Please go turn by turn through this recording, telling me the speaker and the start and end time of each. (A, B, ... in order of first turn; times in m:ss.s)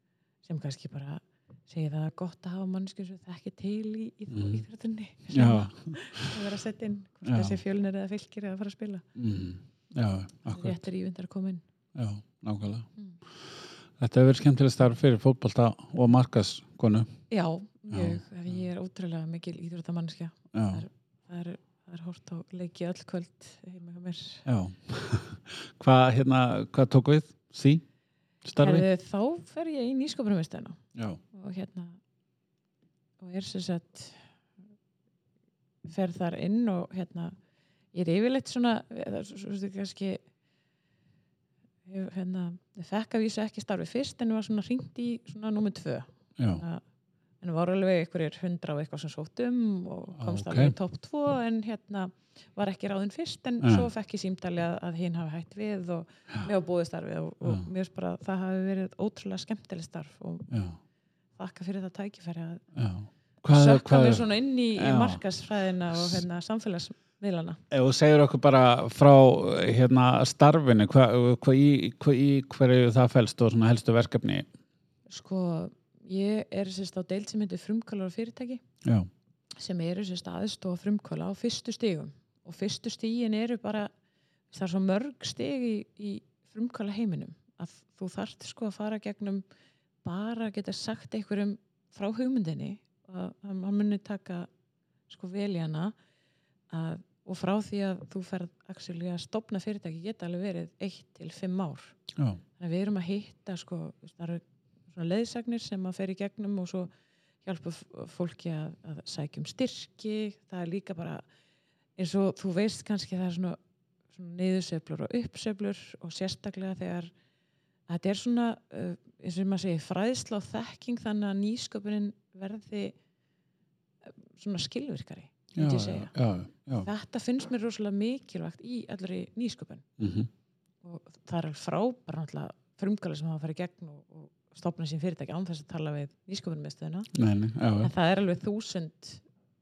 0:00.4-0:09.0 A
0:04.3-0:04.6 B
0:05.3-0:06.3 B
0:07.2-0:07.6 B
0:09.1-0:10.8 B
0:10.5-0:11.6 A
0:11.9-0:13.5 B
0:14.0-0:17.1 B
0:17.3-0:24.4 A
0:17.9-0:18.5 B
0:20.5-0:20.8 B
0:24.4-0:27.8 B
0:28.4-0:28.8 B
0:28.6-0:32.0 A
0:30.9-0:31.2 B
0:33.2-0:34.3 A
0:35.8-0:37.4 A
0:37.9-0:40.2 A
0:41.8-0:46.8 A
0:46.4-0:46.6 B
0:47.4-1:00.5 A
0:50.2-0:50.7 B
0:53.6-0:53.9 B
1:00.5-1:00.8 B
1:01.4-1:02.6 A
1:02.7-1:05.2 B
1:03.5-1:07.6 A
1:07.7-1:14.5 B
1:15.1-1:18.6 A
1:18.8-1:19.1 B
1:19.6-1:23.9 A
1:24.5-1:29.4 A
1:30.0-1:34.5 A
1:35.1-1:35.9 A
1:36.7-1:42.0 A
1:42.2-1:42.4 B
1:42.6-1:46.9 A
1:47.4-1:51.2 A
1:52.0-1:53.6 A
1:54.1-1:57.1 A
1:57.9-2:03.0 A
2:04.0-2:06.1 A
2:05.5-2:06.9 B
2:06.7-2:09.8 A
2:10.0-2:10.3 B
2:10.8-2:17.1 A
2:17.1-2:17.9 B
2:17.8-2:19.2 A